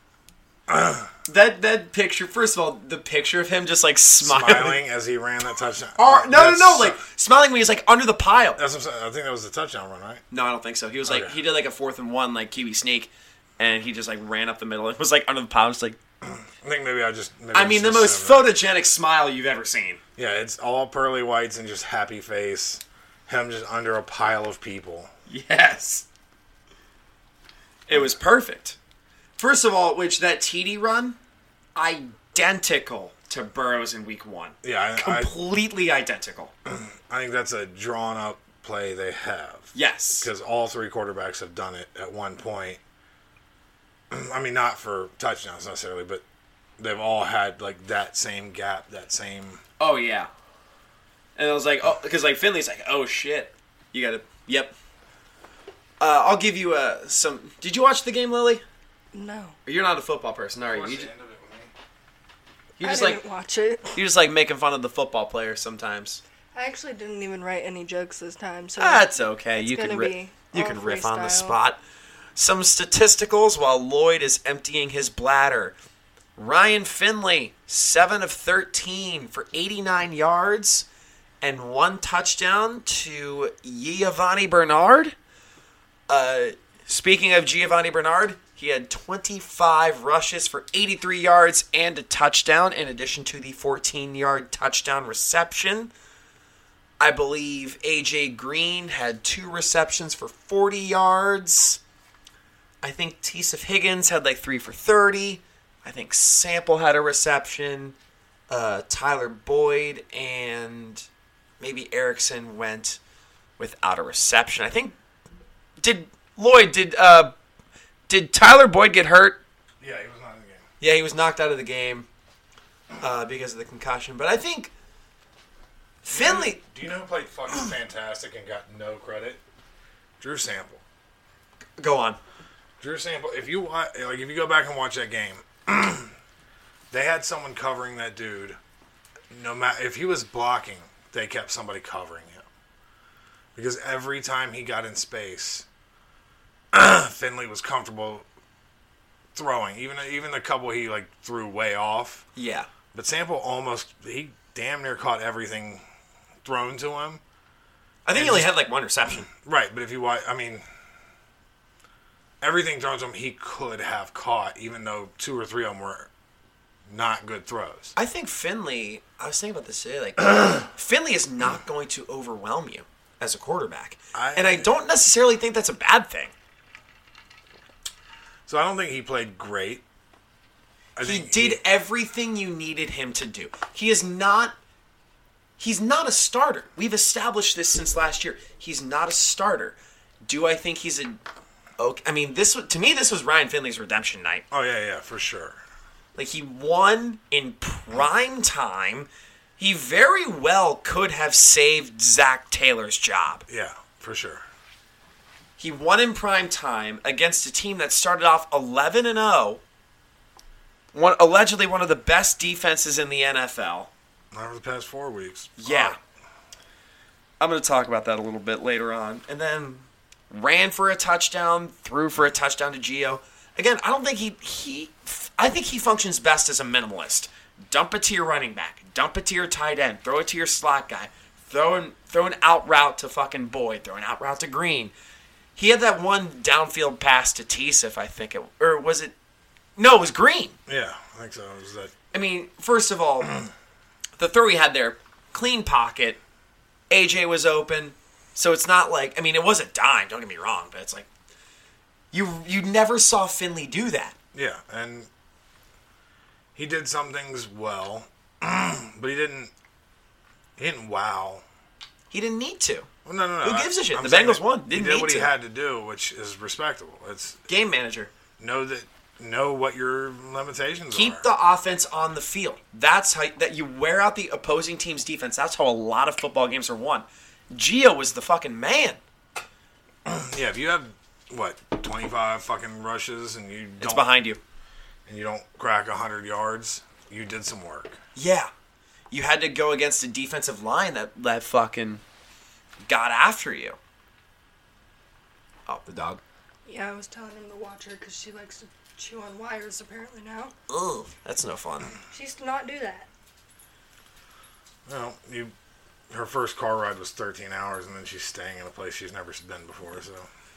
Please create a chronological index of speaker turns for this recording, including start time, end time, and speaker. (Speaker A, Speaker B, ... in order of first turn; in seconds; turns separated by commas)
Speaker A: 0.7-1.1, Speaker B: 1.3-4.8, Speaker A: 4.2-7.0, Speaker B: 6.0-8.6, Speaker A: 8.6-10.2, Speaker B: 10.3-16.0, Speaker A: 11.1-11.3, Speaker A: 16.3-18.5, Speaker B: 17.5-20.0, Speaker A: 20.1-25.1, Speaker B: 25.3-26.1, Speaker B: 27.9-28.8, Speaker B: 29.4-31.2, Speaker B: 31.8-36.5, Speaker A: 34.6-35.3, Speaker A: 36.7-42.8, Speaker B: 39.7-40.3, Speaker A: 44.1-46.2, Speaker A: 46.8-49.6, Speaker B: 49.8-50.3, Speaker B: 51.4-54.8, Speaker B: 56.0-58.6, Speaker C: 59.1-59.6, Speaker B: 59.6-61.1, Speaker A: 60.7-61.7, Speaker B: 62.8-63.2, Speaker C: 62.8-64.0, Speaker B: 63.9-66.2, Speaker C: 66.5-71.6, Speaker B: 68.8-71.8, Speaker B: 72.4-75.8, Speaker B: 76.4-80.9, Speaker B: 81.4-85.1, Speaker B: 86.1-95.9, Speaker B: 97.0-101.8, Speaker B: 102.8-108.0, Speaker B: 108.5-111.1, Speaker B: 111.6-113.0, Speaker B: 113.6-114.9, Speaker B: 115.8-117.3, Speaker B: 118.1-119.4, Speaker A: 119.8-120.6, Speaker B: 120.8-122.1, Speaker B: 123.0-124.7, Speaker B: 126.0-126.6, Speaker A: 126.1-129.4, Speaker A: 130.2-130.8, Speaker B: 131.8-132.2, Speaker A: 132.8-136.1, Speaker A: 136.9-138.6, Speaker A: 139.3-142.4, Speaker A: 143.6-145.7, Speaker A: 146.7-148.2, Speaker A: 149.3-152.3, Speaker B: 152.4-152.7, Speaker A: 152.9-155.8, Speaker A: 156.4-157.2, Speaker B: 158.1-159.3, Speaker A: 158.1-158.6, Speaker A: 159.3-160.6, Speaker A: 162.4-166.1, Speaker A: 166.9-167.9, Speaker B: 167.9-176.3, Speaker A: 174.1-174.7, Speaker A: 178.5-179.8, Speaker A: 180.9-181.6, Speaker B: 181.0-184.6, Speaker B: 185.6-191.2, Speaker B: 191.8-194.4, Speaker A: 194.5-195.6, Speaker B: 196.1-203.4, Speaker A: 203.5-204.4, Speaker B: 205.6-209.6, Speaker B: 210.9-213.9, Speaker A: 214.3-216.0, Speaker B: 215.6-216.0, Speaker B: 217.4-234.9, Speaker B: 235.6-239.1, Speaker B: 239.8-240.6, Speaker A: 240.7-241.9, Speaker B: 242.1-243.3, Speaker B: 244.2-246.2, Speaker B: 246.9-251.1, Speaker B: 252.1-254.1, Speaker A: 254.3-255.1, Speaker A: 256.6-259.5, Speaker A: 260.6-261.4, Speaker B: 262.1-262.9, Speaker A: 263.1-267.4, Speaker B: 263.4-265.3, Speaker B: 267.5-268.1, Speaker A: 268.4-271.3, Speaker B: 270.9-279.0, Speaker A: 280.1-284.1, Speaker B: 283.8-284.4, Speaker A: 285.1-288.0, Speaker B: 288.1-288.5, Speaker B: 289.1-292.0, Speaker B: 292.9-293.8, Speaker B: 295.7-296.2, Speaker C: 296.6-300.6, Speaker B: 300.7-301.9, Speaker C: 302.1-303.1, Speaker A: 304.9-305.5, Speaker A: 306.1-310.3